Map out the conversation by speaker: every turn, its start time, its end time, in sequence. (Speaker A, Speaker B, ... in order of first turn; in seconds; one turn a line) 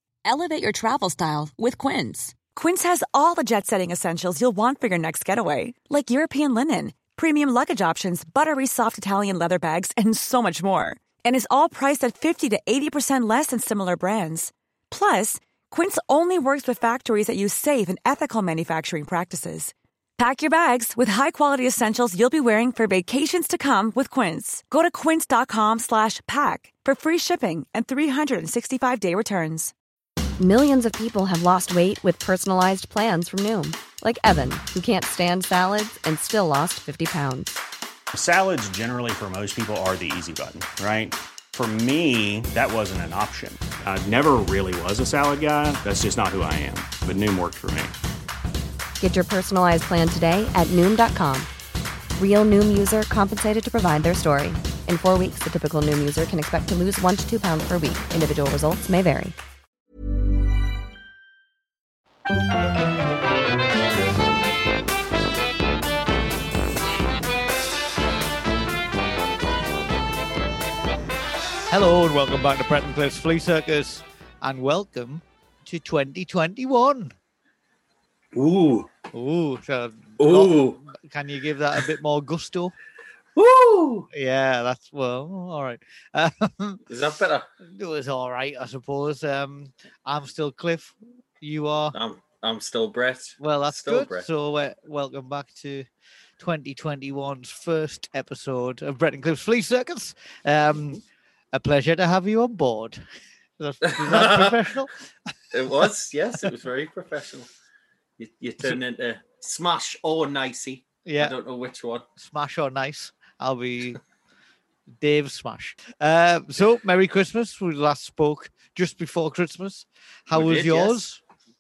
Speaker A: 0.2-2.4
Speaker B: 2.5-29.7
Speaker C: 30.4-37.6
Speaker D: 38.1-48.0
Speaker C: 49.0-51.5
Speaker C: 52.2-59.4
Speaker E: 71.7-77.2
Speaker F: 78.3-78.9
Speaker E: 79.1-82.8
Speaker F: 80.2-80.8
Speaker F: 83.3-84.1
Speaker E: 84.1-86.8
Speaker F: 86.9-87.5
Speaker E: 87.6-92.0
Speaker F: 91.9-94.3
Speaker E: 93.4-95.9
Speaker E: 96.4-103.0
Speaker E: 103.6-105.0
Speaker F: 103.8-104.6
Speaker F: 105.5-107.5
Speaker F: 108.2-112.1
Speaker E: 111.0-111.3
Speaker E: 112.2-114.0
Speaker E: 115.0-121.2
Speaker F: 120.3-121.0